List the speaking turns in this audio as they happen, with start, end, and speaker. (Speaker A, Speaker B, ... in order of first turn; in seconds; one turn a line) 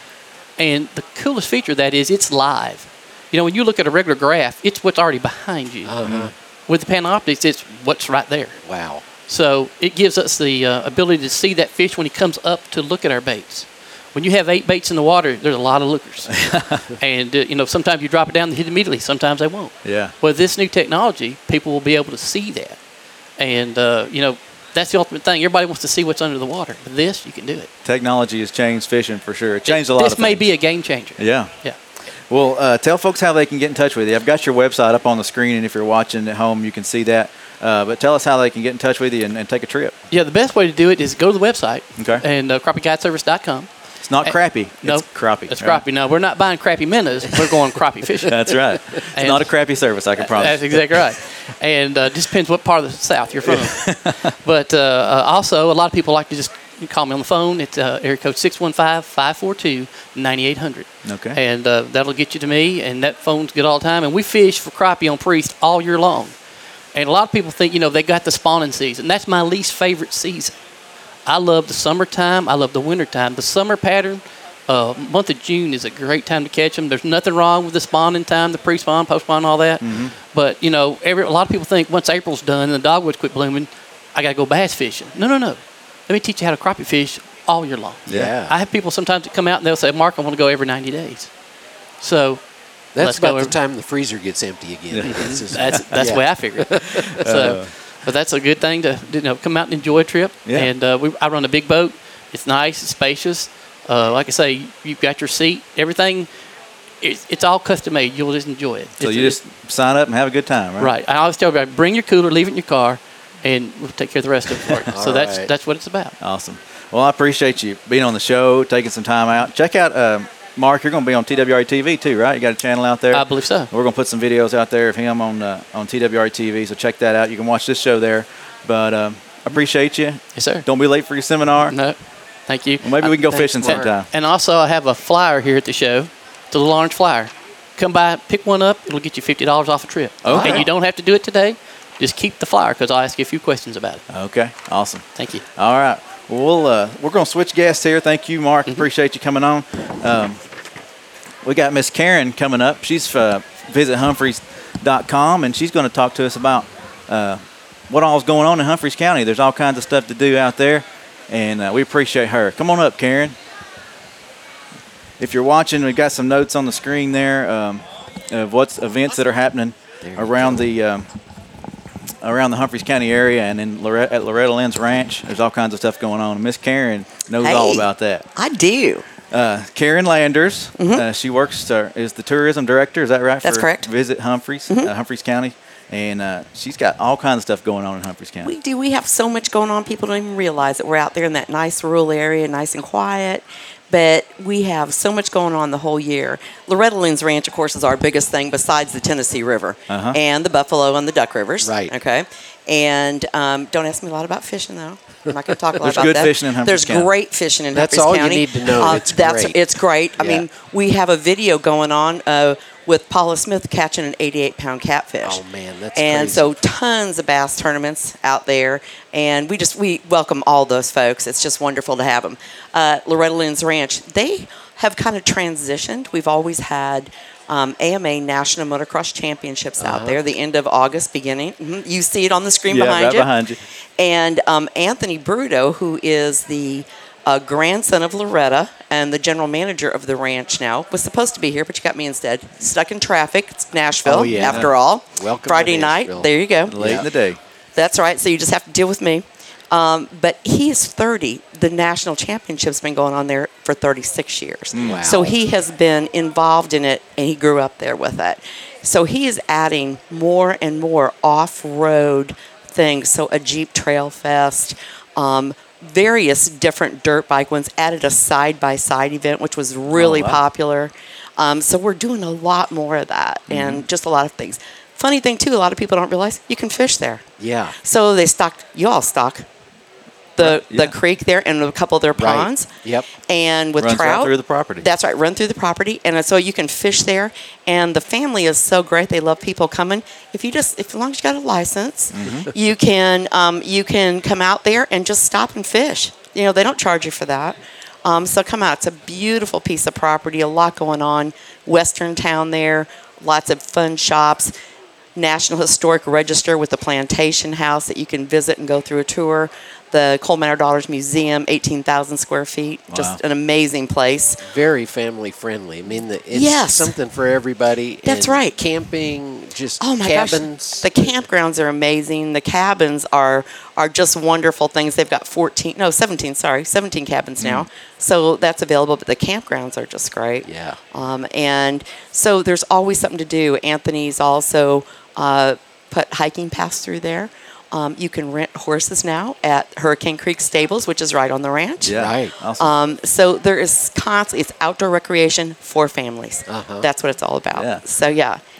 Speaker A: 0.6-8.6
Speaker B: 5.8-6.3
Speaker B: 8.6-9.0
Speaker A: 9.2-22.8
Speaker C: 16.4-16.9
Speaker C: 19.8-20.1
Speaker A: 23.4-27.7
Speaker C: 27.8-30.5
Speaker A: 29.6-31.8
Speaker C: 31.2-31.5
Speaker C: 32.3-39.9
Speaker A: 40.1-49.5
Speaker C: 42.0-42.2
Speaker C: 44.0-45.8
Speaker C: 48.2-51.0
Speaker A: 50.2-66.3
Speaker C: 53.4-54.2
Speaker C: 61.0-61.4
Speaker A: 66.9-70.5
Speaker A: 71.2-91.3
Speaker C: 79.8-80.1
Speaker C: 88.1-88.3
Speaker B: 88.1-88.5
Speaker A: 92.0-93.5
Speaker B: 92.9-97.3
Speaker C: 94.9-96.1
Speaker A: 95.1-106.3
Speaker C: 96.9-97.7
Speaker A: 107.0-109.4
Speaker C: 109.0-110.9
Speaker A: 110.8-116.2
Speaker B: 114.7-115.5
Speaker C: 116.2-131.8
Speaker A: 123.1-123.7
Speaker A: 130.3-130.7
Speaker A: 131.6-144.0
Speaker C: 132.8-134.1
Speaker B: 133.4-133.9
Speaker C: 140.2-140.7
Speaker B: 140.3-140.6
Speaker C: 144.1-150.4
Speaker A: 145.2-145.4
Speaker C: 151.4-163.4
Speaker C: 165.2-171.1
Speaker B: 170.0-170.7
Speaker C: 172.2-178.2
Speaker D: 177.4-179.0
Speaker C: 179.3-188.5
Speaker D: 180.8-181.0
Speaker D: 183.4-183.9
Speaker D: 188.4-215.4
Speaker C: 199.9-200.2
Speaker B: 201.6-201.9
Speaker C: 205.8-207.1
Speaker B: 207.7-210.4
Speaker B: 215.2-216.6
Speaker D: 215.9-233.3
Speaker B: 229.8-230.2
Speaker C: 232.7-233.6
Speaker D: 234.0-247.1
Speaker B: 244.0-247.1
Speaker C: 244.2-244.7
Speaker C: 246.7-247.4
Speaker D: 247.8-277.2
Speaker C: 254.7-255.1
Speaker B: 254.8-255.3
Speaker C: 269.9-270.4
Speaker C: 273.5-273.8
Speaker B: 277.4-277.7
Speaker D: 277.8-279.4
Speaker D: 280.4-304.5
Speaker C: 280.4-280.9
Speaker B: 282.2-283.1
Speaker C: 283.8-284.8
Speaker C: 292.1-292.5
Speaker D: 305.1-314.4
Speaker C: 312.9-313.2
Speaker B: 314.4-321.2
Speaker D: 316.3-316.9
Speaker D: 318.0-318.6
Speaker D: 319.8-342.0
Speaker B: 330.4-330.8
Speaker C: 341.8-342.7
Speaker B: 341.9-342.3
Speaker D: 342.6-348.4
Speaker B: 346.5-346.9
Speaker C: 347.6-347.8